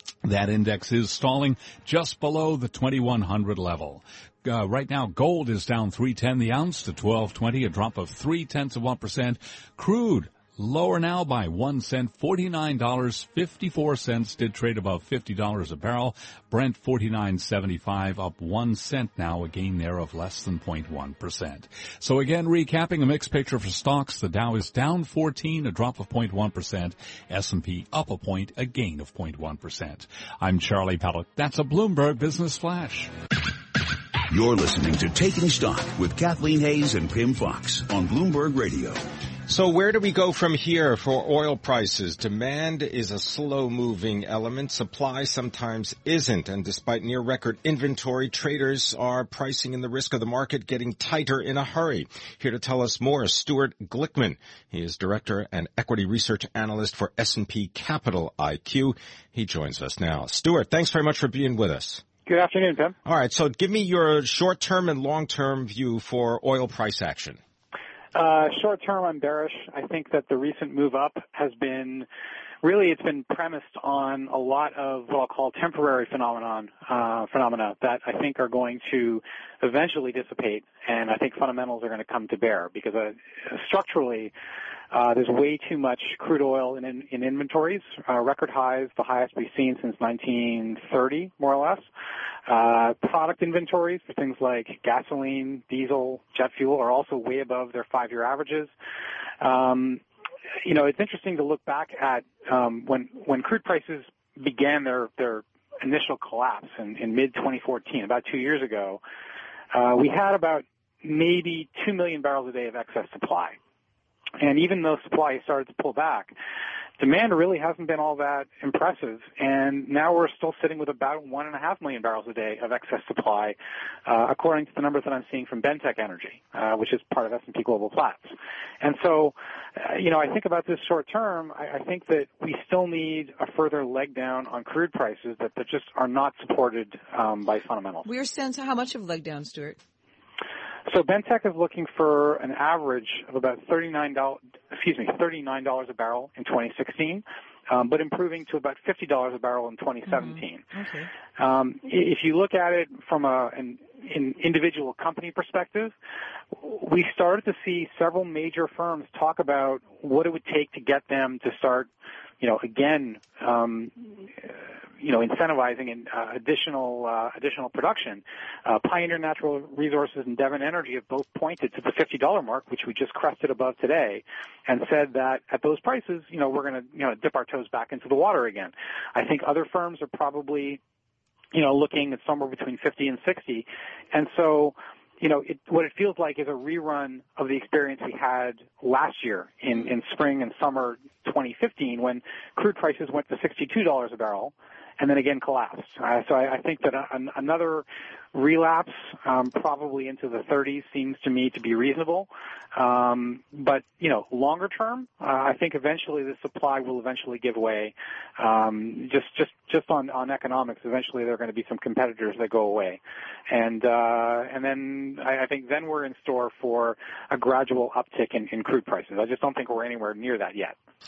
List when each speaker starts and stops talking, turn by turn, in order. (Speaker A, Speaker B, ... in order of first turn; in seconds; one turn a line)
Speaker A: 0.2-33.1
Speaker B: 34.3-39.0
Speaker C: 39.5-62.0
Speaker D: 62.2-62.9
Speaker C: 63.0-67.4
Speaker D: 68.1-72.1
Speaker D: 72.6-84.3
Speaker D: 84.9-91.8
Speaker D: 92.5-98.7
Speaker D: 99.4-100.0
Speaker D: 100.6-109.0
Speaker D: 109.7-113.5
Speaker D: 114.4-116.3
Speaker D: 117.0-138.1
Speaker E: 138.0-139.8
Speaker D: 140.9-150.6
Speaker E: 150.1-151.1
Speaker D: 151.3-155.9
Speaker D: 156.5-161.9
Speaker D: 162.4-180.8
Speaker D: 181.5-220.7